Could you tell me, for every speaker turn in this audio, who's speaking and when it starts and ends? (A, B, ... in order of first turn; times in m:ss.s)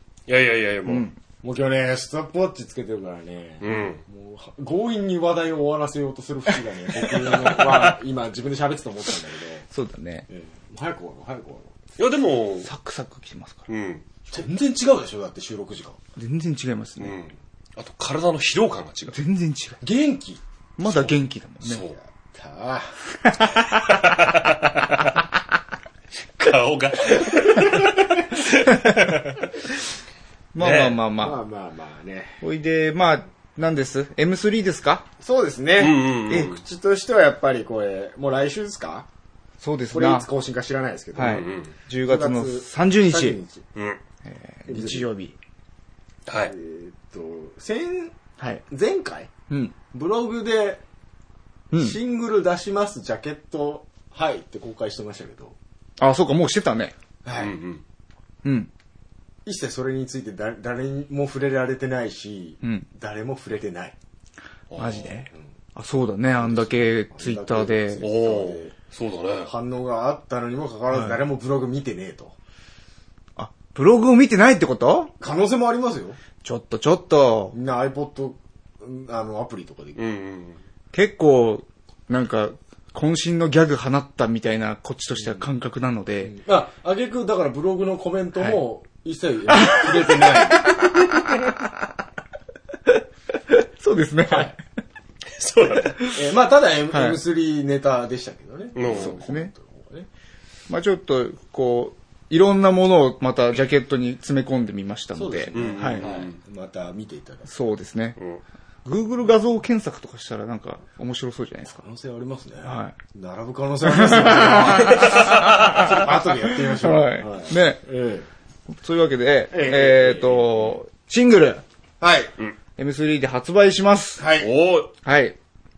0:00.3-0:01.1 A
0:00.8-0:01.2 B
0:01.4-0:09.6 C
0:03.6-0:04.0 A
0:09.7-0:10.3 B
0:10.3-0:11.8 C
0:12.0-0:12.7 A
0:12.6-0:13.7 B
0:13.7-0:14.0 A
0:14.3-0:16.0 C
0:16.2-0:17.2 B
0:17.0-0:19.2 A
0:19.1-0:19.8 B
0:19.8-0:20.4 C
0:20.8-0:21.9 B
0:20.8-0:22.0 A
0:22.3-0:22.9 C
0:23.2-0:23.7 B
0:23.9-0:25.1 A
0:26.4-0:29.5 A
0:30.5-0:31.4 B
0:30.6-0:31.0 A
0:31.2-0:32.4 C
0:32.4-0:35.0 B
0:35.2-0:39.1 C
0:35.8-0:36.6 A
0:39.6-0:40.3 B
0:39.9-0:41.5 C
0:41.2-0:43.4 B
0:41.2-0:41.7 A
0:42.0-0:43.6 C
0:43.7-0:44.0 A
0:44.2-0:45.4 B
0:44.7-0:45.1 C
0:46.2-0:46.5 A
0:46.4-0:48.1 C
0:48.4-0:48.6 B
0:48.7-0:49.3 C
0:49.5-0:49.7 B
0:49.9-0:50.8 C
0:51.7-0:52.0 B
0:51.8-0:55.6 C
0:56.0-0:56.9 B
0:57.2-0:57.5 C
0:57.3-0:57.8 A
0:58.4-0:58.7 B
0:59.4-1:04.0 C
1:02.6-1:02.9 B
1:04.7-1:05.2 A
1:04.7-1:08.0 B
1:06.4-1:08.7 C
1:08.0-1:09.5 A
1:09.4-1:12.4 C
1:10.9-1:11.2 B
1:13.4-1:15.1 B
1:15.2-1:16.2 C
1:16.4-1:17.6 B
1:17.5-1:20.0 C
1:20.0-1:20.6 A
1:20.9-1:26.3 B
1:26.2-1:30.7 C
1:29.5-1:30.8 B
1:32.9-1:34.6 B
1:35.4-1:36.1 A
1:36.1-1:40.1 C
1:36.9-1:37.2 B
1:38.7-1:39.2 A
1:38.9-1:39.5 B
1:40.7-1:46.1 B
1:45.1-1:47.5 C
1:45.5-1:46.4 A
1:47.5-1:48.2 B
1:48.8-1:51.8 B
1:51.7-1:58.3 C
1:52.6-1:53.0 B
1:53.8-1:57.8 B
1:54.9-1:55.9 A
1:58.7-2:01.6 B
1:59.5-2:00.7 C
2:02.0-2:02.3 C
2:02.8-2:04.3 B
2:04.2-2:04.5 C
2:04.4-2:04.9 A
2:05.0-2:05.4 B